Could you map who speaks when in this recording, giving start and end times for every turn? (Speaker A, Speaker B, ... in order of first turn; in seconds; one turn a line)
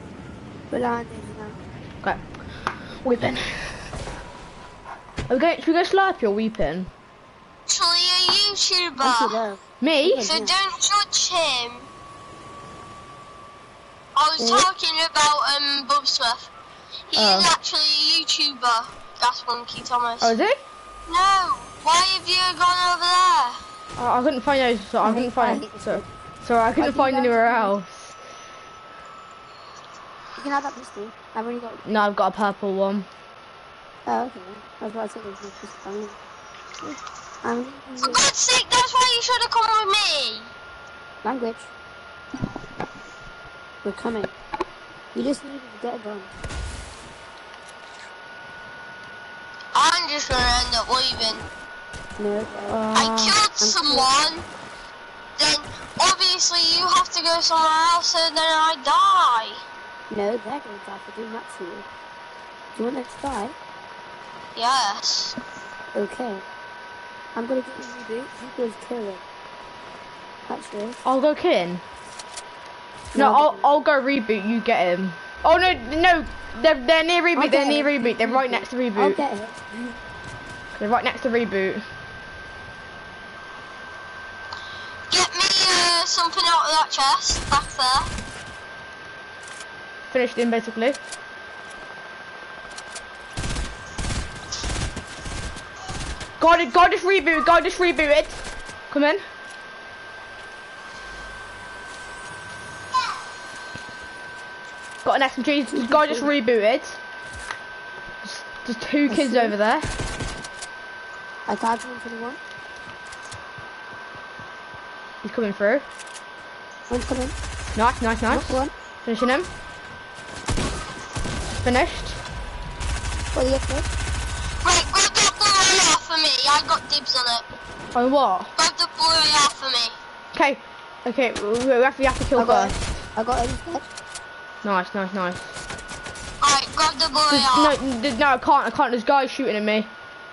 Speaker A: 0.7-1.6
Speaker B: 2.9-3.9
Speaker B: 5.3-6.9
Speaker C: 7.7-9.4
Speaker A: 9.0-10.6
Speaker B: 9.8-10.3
Speaker C: 10.2-11.9
Speaker C: 14.2-16.5
Speaker A: 14.4-14.7
Speaker C: 17.1-20.4
Speaker B: 17.1-17.5
Speaker B: 20.2-20.6
Speaker C: 21.1-23.6
Speaker B: 24.0-28.2
Speaker A: 25.0-26.1
Speaker A: 26.8-27.8
Speaker A: 30.4-31.9
Speaker B: 31.9-33.1
Speaker A: 34.1-36.2
Speaker A: 37.4-38.3
Speaker C: 38.0-40.5
Speaker A: 41.2-41.7
Speaker A: 43.8-44.3
Speaker A: 45.1-46.3
Speaker C: 49.7-51.5
Speaker A: 52.2-52.9
Speaker B: 52.7-53.4
Speaker C: 52.9-54.5
Speaker A: 53.6-54.1
Speaker C: 55.4-59.6
Speaker A: 60.1-61.9
Speaker A: 62.8-63.5
Speaker C: 64.6-65.4
Speaker A: 66.0-66.4
Speaker A: 67.3-69.2
Speaker A: 70.5-71.0
Speaker B: 71.0-71.8
Speaker A: 73.1-73.7
Speaker B: 73.2-79.2
Speaker A: 77.3-80.0
Speaker B: 80.8-81.8
Speaker C: 85.1-88.1
Speaker B: 90.1-91.0
Speaker B: 96.4-99.2
Speaker B: 105.0-107.0
Speaker A: 105.7-106.3
Speaker B: 108.2-109.9
Speaker A: 109.1-109.6
Speaker A: 111.5-112.4
Speaker B: 115.2-115.9
Speaker A: 116.9-117.3
Speaker B: 117.8-119.5
Speaker A: 118.3-118.7
Speaker B: 121.6-122.2
Speaker A: 123.3-123.9
Speaker C: 124.6-127.5
Speaker B: 128.0-128.5
Speaker C: 128.6-130.0
Speaker B: 130.3-132.8
Speaker A: 132.4-133.9
Speaker B: 134.6-135.6
Speaker C: 136.4-137.8
Speaker B: 137.3-139.9